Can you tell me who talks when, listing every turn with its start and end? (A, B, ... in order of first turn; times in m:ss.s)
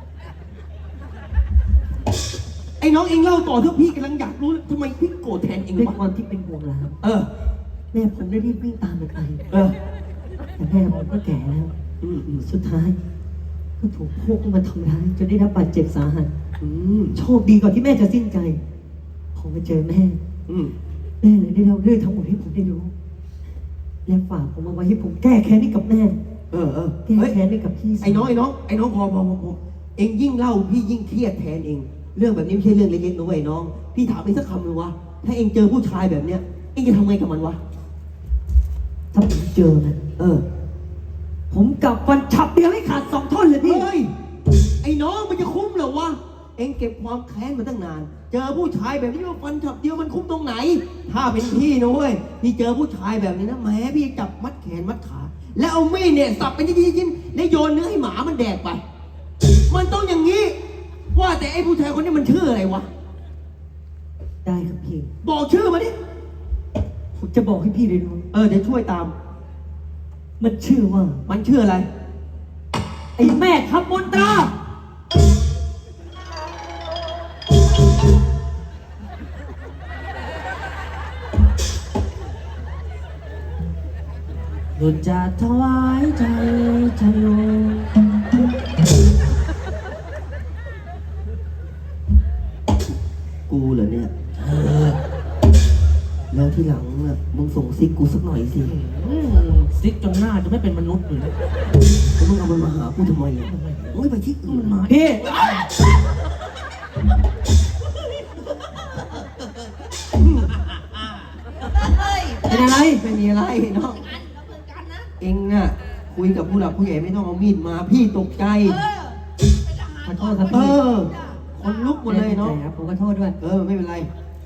0:02.8-0:06.0 A
0:05.7-0:07.0 B
0:07.0-0:07.3 A
0:07.9-0:09.4 B
0:09.5-0:09.8 A
0:10.6-0:11.7 B
0:12.0-0:12.5 A
0:12.4-0:13.0 B
0:13.8-0:16.3 B
0:16.6-0:17.2 A
0:17.1-0:18.6 B
0:19.3-0:20.2 B
0:20.5-0:20.7 A
0:21.2-0:22.9 B
0:24.0-0:26.2 B
0:26.5-0:27.4 A
0:27.0-0:28.3 B
0:28.0-0:37.6 A
0:39.1-0:40.0 B
0:40.2-0:40.4 A
0:41.5-0:43.9 B
0:43.6-0:44.1 A
0:44.8-0:58.8 A
0:59.7-1:00.5 A
1:01.1-1:02.9 A
1:04.4-1:05.1 B
1:05.2-1:05.9 A
1:07.2-1:08.3 B
1:08.3-1:09.1 A
1:10.4-1:11.2 B
1:11.3-1:11.9 A
1:13.2-1:14.5 B
1:24.8-1:27.9 C
1:33.5-1:34.1 A
1:34.4-1:35.0 C
1:36.3-1:38.7 A
1:38.6-1:41.4 C
1:42.2-1:44.8 A
1:43.5-1:45.8 C
1:44.8-1:45.3 B
1:47.9-1:49.7 C
1:50.2-1:50.5 A
1:50.5-1:52.8 C
1:52.4-1:53.0 B
1:52.9-1:54.0 A
1:53.8-1:55.1 C
1:55.2-1:58.8 A
1:58.6-2:01.8 C
2:00.0-2:00.8 B
2:00.5-2:02.6 A
2:02.0-2:03.4 B
2:03.4-2:04.1 A